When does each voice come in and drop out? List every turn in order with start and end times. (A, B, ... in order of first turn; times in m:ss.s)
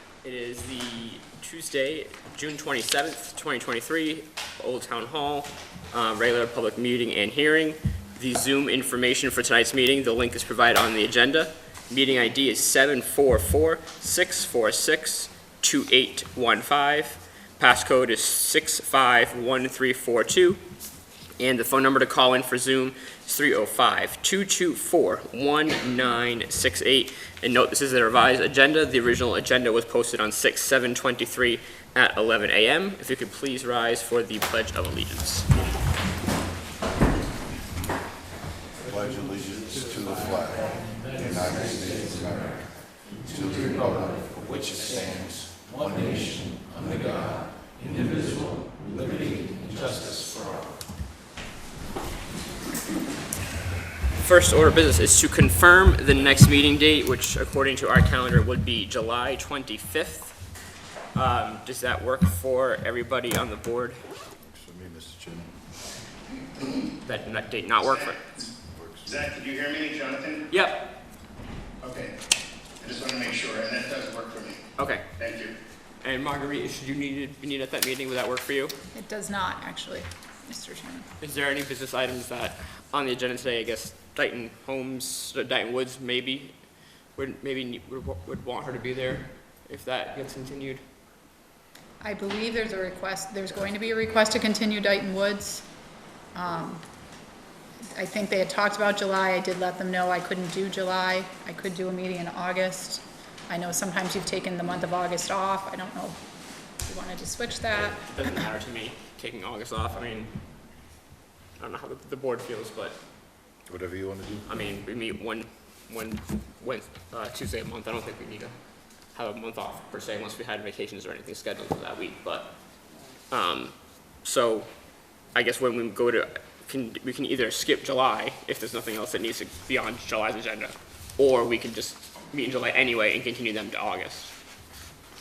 0:00.2-0:20.6 A
0:21.4-0:35.5 A
0:38.8-0:50.7 B
0:54.2-1:00.4 A
1:01.1-1:04.0 A
1:04.4-1:05.6 B
1:07.0-1:08.3 A
1:08.7-1:09.3 B
1:09.4-1:10.2 C
1:10.5-1:10.9 A
1:12.8-1:14.6 C
1:14.8-1:15.1 A
1:15.2-1:15.5 C
1:16.0-1:18.8 A
1:18.9-1:21.1 D
1:21.2-1:26.6 A
1:27.1-1:30.8 A
1:32.0-1:35.6 D
1:36.3-1:36.8 D
1:38.0-1:46.2 D
1:46.8-1:48.3 D
1:47.7-1:50.3 A
1:51.6-1:53.0 A
1:53.7-1:54.5 B
1:54.4-1:58.5 A
1:59.1-2:02.5 A
2:03.3-2:04.7 A
2:05.3-2:14.3 A